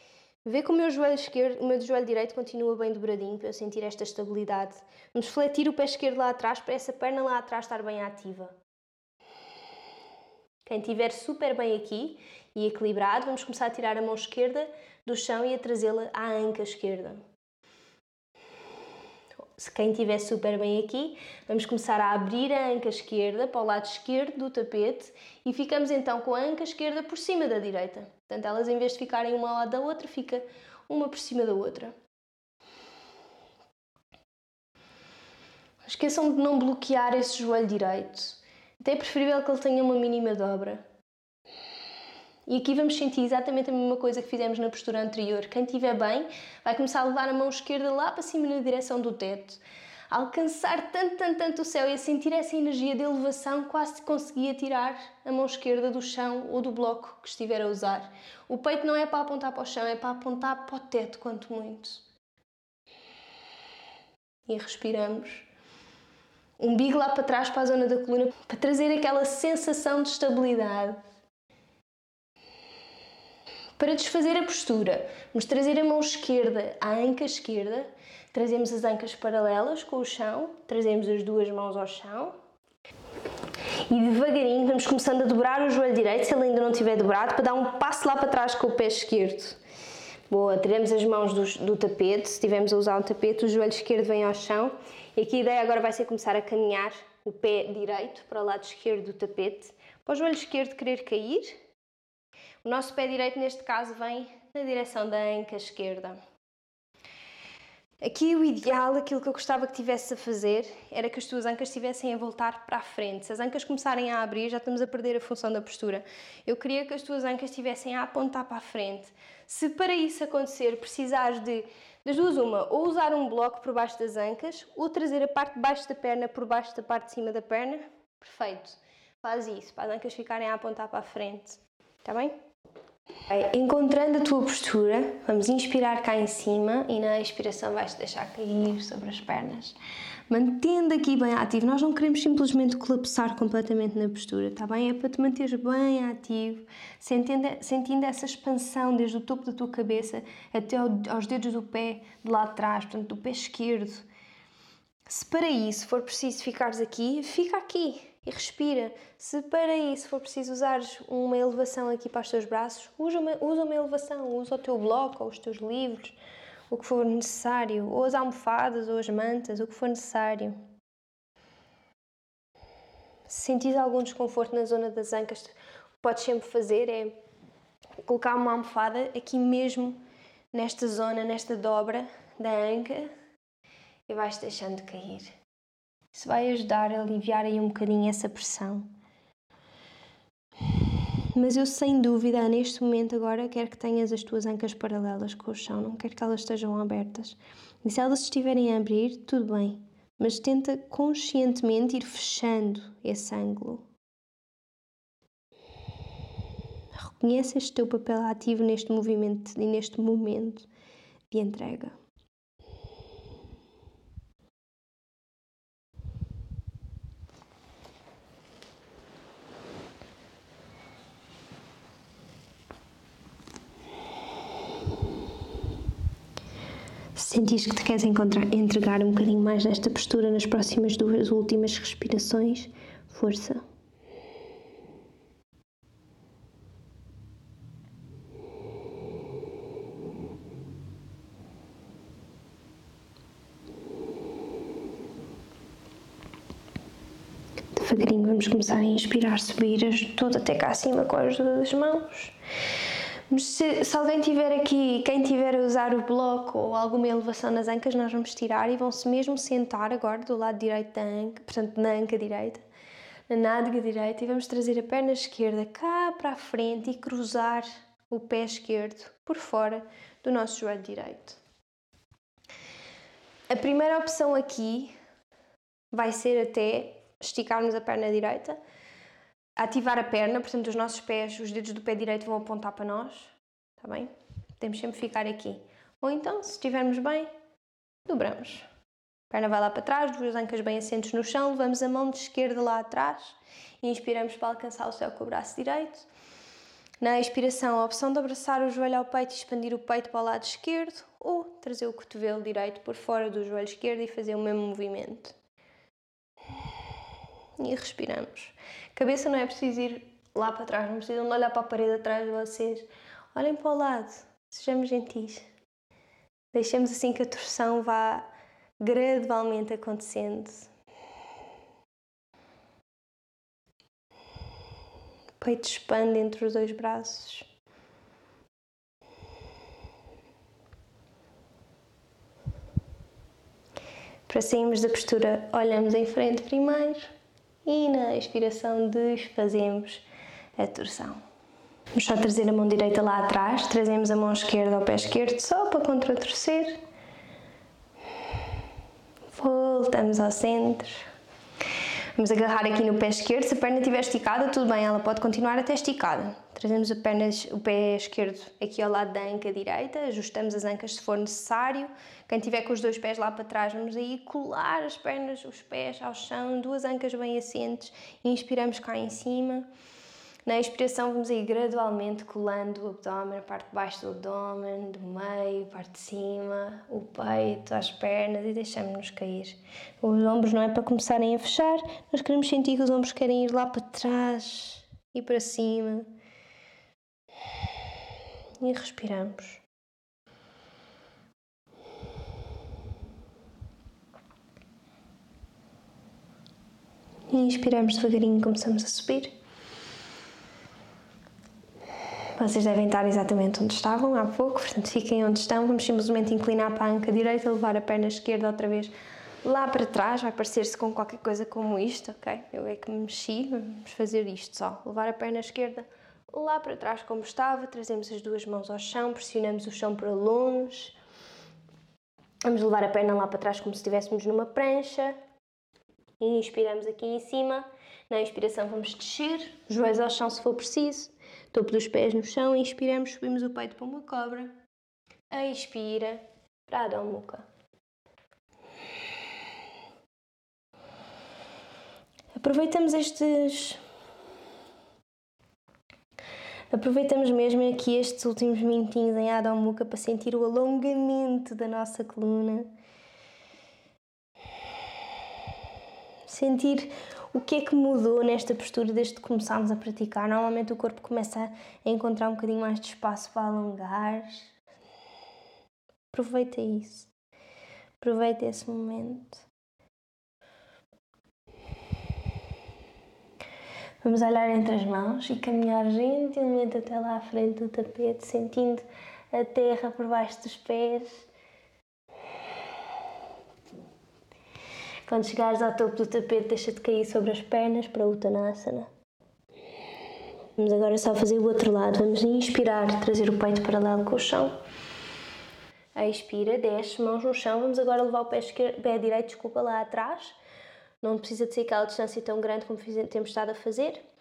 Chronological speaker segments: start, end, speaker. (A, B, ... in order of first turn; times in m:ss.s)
0:00.4-0:08.6 A
0:10.6-0:17.2 A
0:19.6-0:31.9 A
0:35.8-0:40.8 A
0:42.5-1:02.0 A
1:04.4-1:05.5 A
1:06.6-1:11.0 A
1:13.8-1:22.4 A
1:23.9-1:29.6 A
1:30.3-1:41.6 A
1:42.6-1:46.2 A
1:48.0-2:12.3 A
2:13.3-2:19.8 A
2:20.3-2:34.0 A
2:35.1-2:46.2 A
2:46.7-2:50.6 A
2:53.3-2:57.2 A
2:58.0-3:00.0 A
3:00.5-3:03.1 A
3:04.1-3:05.3 A
3:06.1-3:08.9 A
3:11.3-3:23.9 A
3:26.9-3:30.7 A
3:31.3-3:32.0 A
3:47.1-3:53.6 A
4:07.7-4:12.3 A
4:13.3-4:22.6 A
4:23.3-4:31.4 A
4:33.5-4:34.9 A
4:35.9-4:38.6 A
4:39.6-4:47.3 A
4:48.0-4:48.7 A
4:49.3-4:56.1 A
4:57.0-5:05.4 A
5:07.6-5:15.5 A
5:16.5-5:18.3 A
5:18.8-5:20.7 A
5:25.4-5:27.5 A
5:34.3-5:37.1 A
5:37.6-5:40.0 A
5:40.6-5:41.2 A
5:41.9-5:46.8 A
5:49.3-5:51.0 A
5:52.2-6:09.7 A
6:10.4-6:26.1 A
6:28.6-6:29.6 A
6:37.3-6:39.3 A
6:42.4-6:48.9 A
6:49.4-7:01.0 A
7:02.4-7:05.2 A
7:06.2-7:14.6 A
7:15.3-7:17.4 A
7:22.4-7:23.8 A
7:26.7-7:32.7 A
7:36.3-7:44.5 A
7:46.1-7:47.1 A
7:48.0-7:49.4 A
7:54.0-8:01.3 A
8:05.0-8:08.9 A
8:10.6-8:14.5 A
8:16.0-8:20.4 A
8:21.0-8:24.0 A